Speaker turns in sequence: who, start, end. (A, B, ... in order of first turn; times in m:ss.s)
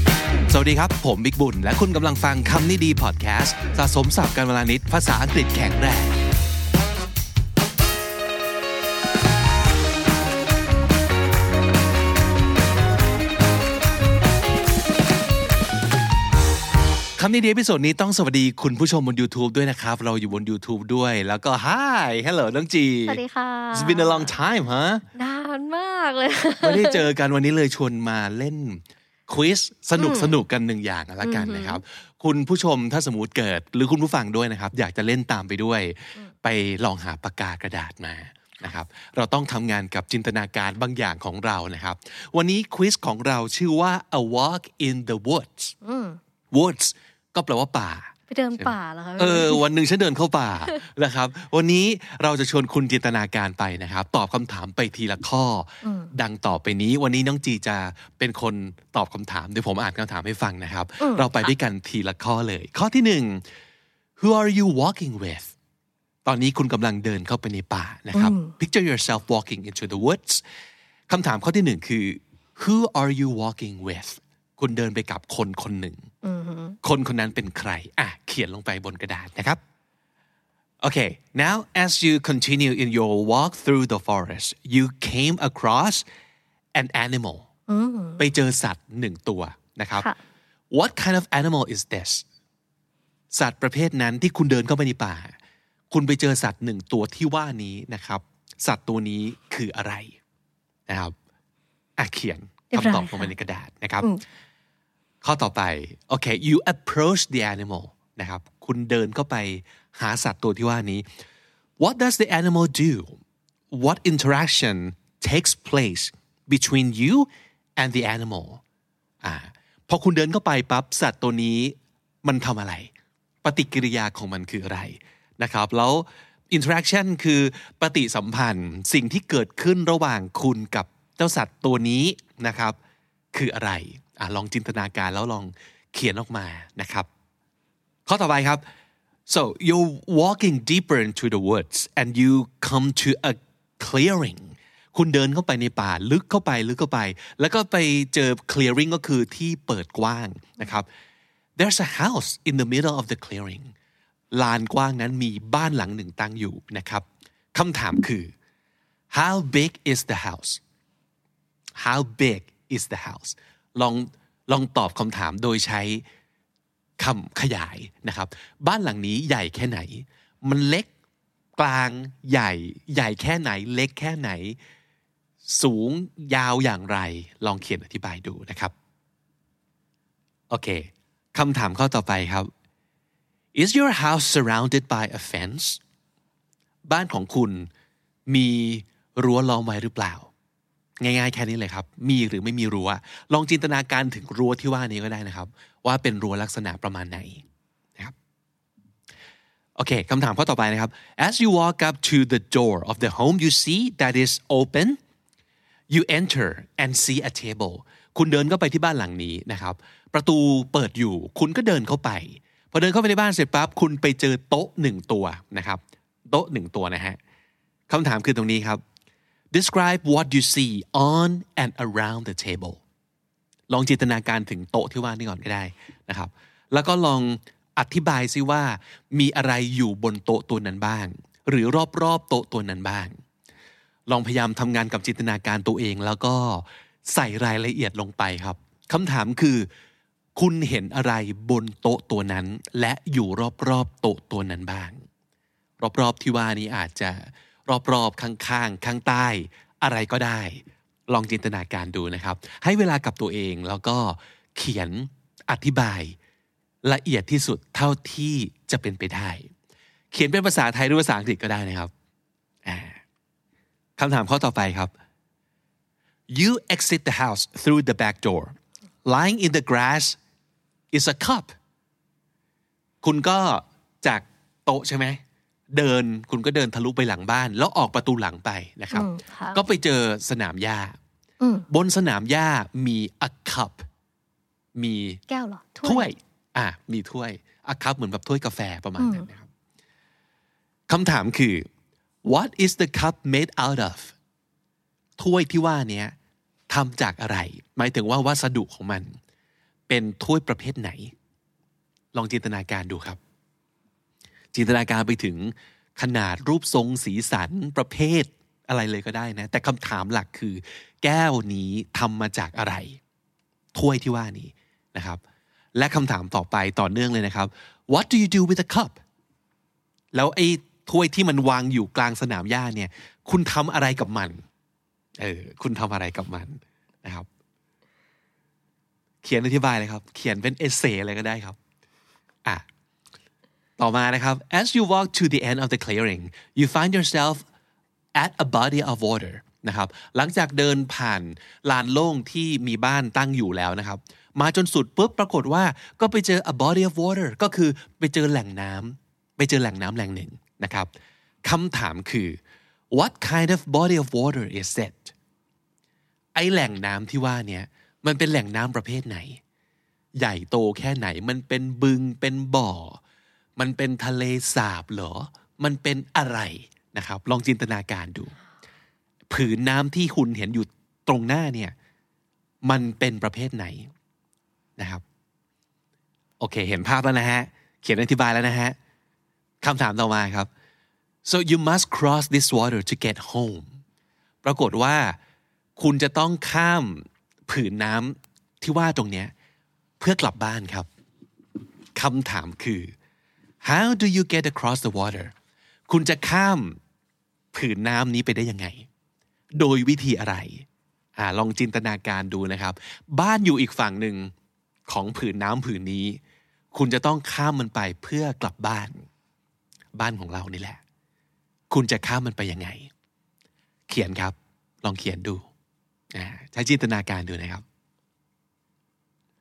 0:00.5-0:06.2 A
0:17.2-0:23.2 A
0:23.1-0:24.3 B
0:23.7-0:25.0 A
0:25.2-0:27.0 B
0:26.6-0:45.8 A
0:30.0-0:30.4 B
0:31.2-0:31.8 B
0:45.8-0:46.2 B
0:46.5-1:03.4 A
0:48.3-0:49.6 B
0:55.8-0:56.1 B
1:01.0-1:01.5 B
1:04.2-1:05.5 A
1:06.2-1:10.4 A
1:08.1-1:08.5 B
1:11.1-1:16.1 A
1:16.2-1:16.8 B
1:16.8-1:19.6 A
1:20.8-1:26.0 A
1:26.8-1:27.5 A
1:27.7-1:28.2 B
1:28.2-1:30.1 A
1:30.7-1:32.2 A
1:33.3-1:35.3 A
1:35.9-1:40.2 A
1:40.9-1:41.1 A
1:42.0-1:44.1 A
1:42.7-1:43.3 B
1:45.2-1:51.0 A
1:51.8-1:53.2 A
1:53.7-1:58.6 A
1:59.2-2:02.9 A
2:03.4-2:12.8 A
2:13.3-2:17.1 A
2:18.1-2:18.6 A
2:19.3-2:30.9 A
2:31.6-2:33.7 A
2:34.3-2:38.3 A
2:39.1-2:40.6 A
2:41.8-2:46.0 A
2:47.0-2:50.9 A
2:51.6-2:54.6 A
2:55.4-2:58.7 A
3:00.5-3:02.5 A
3:03.5-3:05.8 A
3:06.9-3:07.7 A
3:08.3-3:10.3 A
3:11.0-3:17.4 A
3:19.8-3:25.0 A
3:25.9-3:37.2 A
3:37.9-3:38.8 A
3:39.5-3:42.8 A
3:43.7-3:53.1 A
3:54.1-3:59.7 A
4:00.4-4:05.0 A
4:05.8-4:16.2 A
4:16.8-4:19.5 A
4:20.1-4:21.9 A
4:22.6-4:23.0 A
4:24.0-4:24.9 A
4:26.3-4:30.2 A
4:30.9-4:31.5 A
4:33.0-4:35.2 A
4:35.7-4:41.0 A
4:38.9-4:39.6 B
4:41.4-4:41.7 B
4:41.7-4:43.8 A
4:44.8-4:45.2 A
4:45.3-4:46.1 B
4:45.8-4:49.5 A
4:49.0-4:49.3 B
4:50.9-4:51.7 A
4:52.2-4:54.1 A
4:55.2-4:56.1 A
4:56.7-4:59.2 A
4:59.9-5:01.1 A
5:02.1-5:03.2 A
5:04.5-5:13.0 A
5:13.7-5:15.2 A
5:15.8-5:19.0 A
5:20.1-5:24.4 A
5:25.2-5:27.3 A
5:29.2-5:31.6 A
5:33.8-5:37.4 A
5:38.2-5:50.9 A
5:51.4-5:52.4 A
5:52.9-5:55.1 A
5:56.4-5:59.4 A
6:00.2-6:03.0 A
6:03.6-6:08.3 A
6:09.3-6:11.7 A
6:12.6-6:13.9 A
6:14.8-6:15.0 A
6:16.4-6:18.8 A
6:19.6-6:20.5 A
6:21.3-6:23.7 A
6:24.4-6:25.2 A
6:25.8-6:29.3 A
6:30.0-6:30.9 A
6:32.0-6:32.9 A
6:33.6-6:35.3 A
6:35.9-6:36.8 A
6:37.5-6:38.9 A
6:39.5-6:44.3 A
6:44.9-6:46.2 A
6:46.7-6:49.0 A
6:50.0-6:50.8 A
6:51.7-6:52.9 A
6:53.9-6:55.5 A
6:56.1-6:57.6 A